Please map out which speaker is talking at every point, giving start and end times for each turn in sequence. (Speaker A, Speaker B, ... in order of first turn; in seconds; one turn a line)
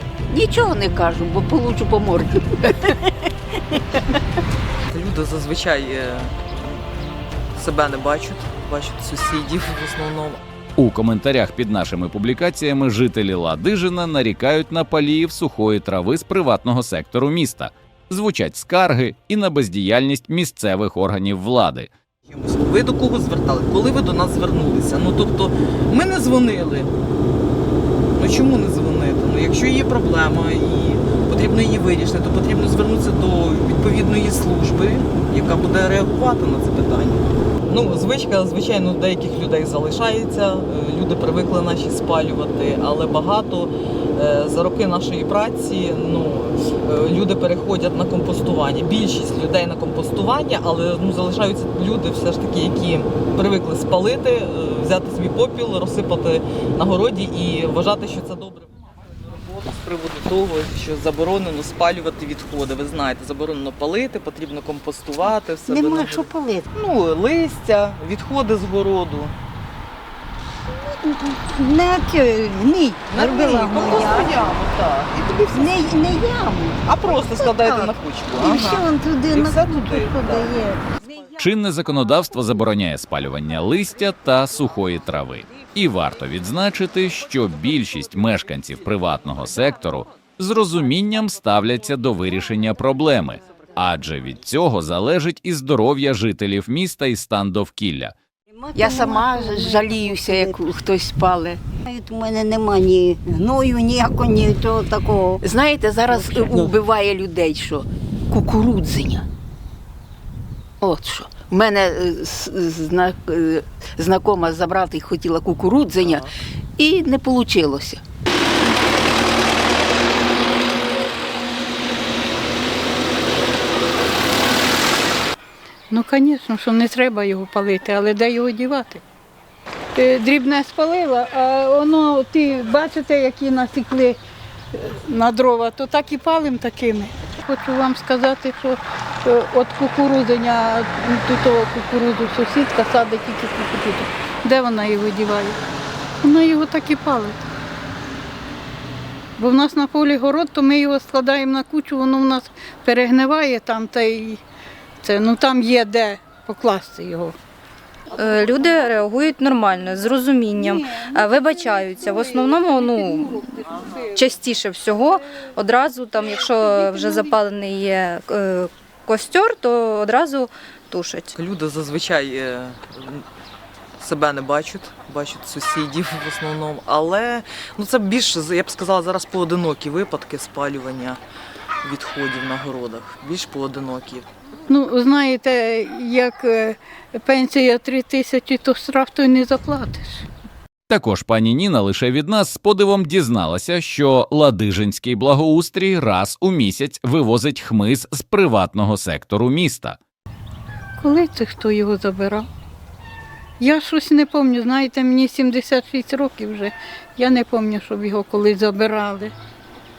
Speaker A: 0.3-3.1
Speaker A: 3.7-4.2
Speaker B: 4.9-6.8
Speaker B: 7.5-10.4
Speaker C: 10.8-21.9
Speaker B: 22.3-26.9
Speaker B: 28.2-58.7
Speaker B: 59.2-69.3
Speaker D: 65.7-66.7
Speaker D: 70.7-74.5
Speaker B: 73.1-75.9
Speaker D: 75.5-80.8
Speaker B: 76.8-80.7
Speaker C: 81.4-98.2
Speaker D: 98.5-100.6
Speaker A: 98.7-101.6
Speaker D: 101.8-105.4
Speaker A: 105.4-109.2
Speaker D: 106.3-106.7
Speaker A: 110.8-118.0
Speaker B: 116.0-116.3
Speaker E: 125.9-129.0
Speaker E: 130.0-134.2
Speaker E: 134.7-145.6
Speaker E: 146.2-147.4
Speaker E: 149.4-154.4
Speaker E: 155.0-157.4
Speaker F: 158.1-171.4
Speaker B: 171.4-173.2
Speaker B: 174.0-181.2
Speaker B: 181.8-184.3
Speaker E: 184.7-190.3
Speaker C: 190.9-200.0
Speaker E: 201.0-202.5
Speaker E: 203.6-209.3